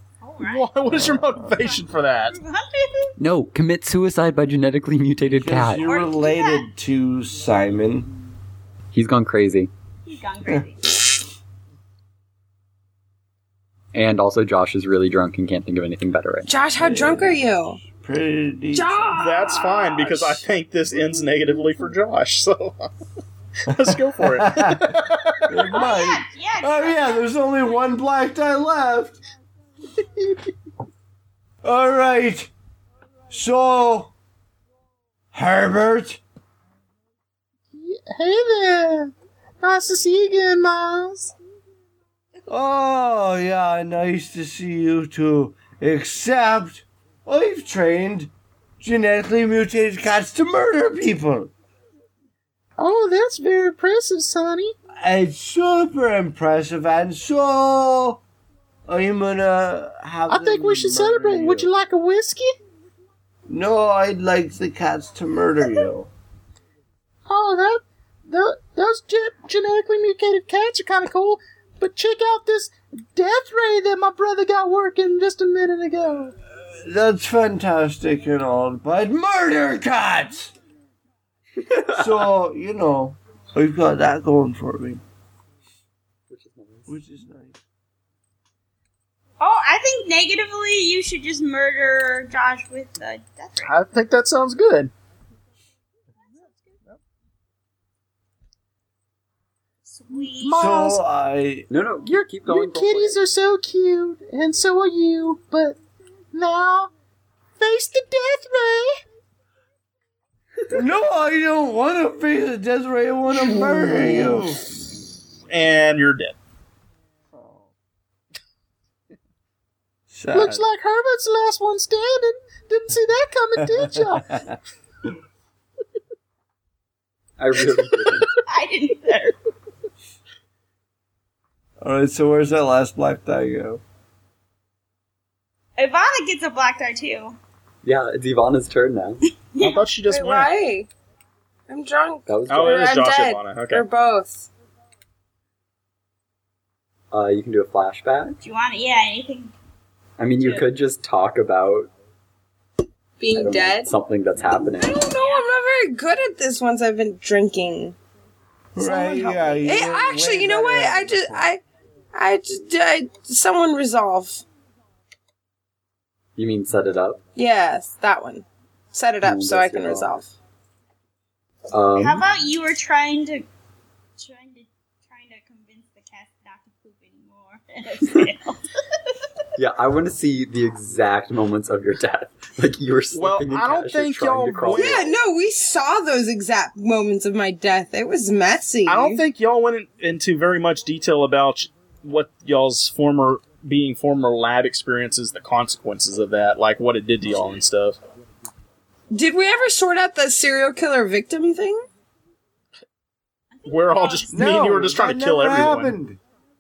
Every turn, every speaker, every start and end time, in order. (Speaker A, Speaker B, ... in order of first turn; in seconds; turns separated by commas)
Speaker A: 0.2-0.7, Speaker B: 0.4-2.4, Speaker C: 1.0-1.4, Speaker A: 1.6-3.1, Speaker D: 3.2-5.8, Speaker C: 5.4-8.1, Speaker A: 5.8-6.7, Speaker D: 8.9-9.7, Speaker A: 10.1-11.0, Speaker D: 13.9-16.6, Speaker E: 16.5-17.8, Speaker C: 16.8-17.4, Speaker C: 17.9-19.2, Speaker E: 18.7-20.1, Speaker B: 19.2-22.9, Speaker B: 23.7-25.5, Speaker C: 24.3-29.2, Speaker A: 25.7-27.4, Speaker C: 31.6-32.5, Speaker C: 33.3-34.1, Speaker C: 35.3-36.2, Speaker F: 37.7-41.3, Speaker C: 42.5-51.5, Speaker F: 52.8-54.7, Speaker C: 55.0-58.2, Speaker C: 58.9-61.7, Speaker F: 60.3-62.5, Speaker C: 63.5-66.1, Speaker F: 67.3-76.3, Speaker C: 76.8-80.5, Speaker D: 81.7-81.9, Speaker C: 81.9-85.0, Speaker D: 86.3-87.0, Speaker C: 86.9-87.6, Speaker A: 89.4-93.7, Speaker B: 93.6-94.9, Speaker A: 96.4-96.7, Speaker A: 99.9-100.7, Speaker F: 100.2-101.0, Speaker C: 100.5-101.7, Speaker D: 101.7-103.2, Speaker F: 102.0-105.8, Speaker F: 106.3-106.9, Speaker F: 107.6-109.0, Speaker C: 110.7-114.6, Speaker B: 115.5-116.4, Speaker C: 120.1-120.7, Speaker F: 120.3-124.4, Speaker C: 123.7-124.5, Speaker D: 127.4-128.3, Speaker A: 128.5-129.4, Speaker C: 131.8-133.8, Speaker A: 135.8-137.4, Speaker D: 137.8-139.2, Speaker A: 139.5-139.8, Speaker B: 139.6-140.5, Speaker E: 140.1-140.9, Speaker E: 141.7-144.5, Speaker D: 142.3-142.9, Speaker B: 142.5-143.9, Speaker D: 147.1-148.4, Speaker A: 148.4-149.5, Speaker D: 150.2-151.9, Speaker A: 150.4-150.7, Speaker E: 153.2-153.9, Speaker D: 153.3-155.0, Speaker E: 154.6-158.0, Speaker A: 155.1-155.5, Speaker C: 158.8-161.4, Speaker E: 158.8-161.6, Speaker E: 162.1-164.4, Speaker D: 166.4-167.2, Speaker E: 167.4-170.3, Speaker D: 169.2-170.1, Speaker D: 171.7-172.3, Speaker A: 172.0-173.5, Speaker A: 174.2-178.6, Speaker D: 179.6-185.1, Speaker B: 183.1-185.1, Speaker E: 184.7-189.2, Speaker B: 188.9-198.0, Speaker E: 199.1-201.9, Speaker A: 203.5-204.5, Speaker B: 203.7-206.0, Speaker C: 204.3-206.2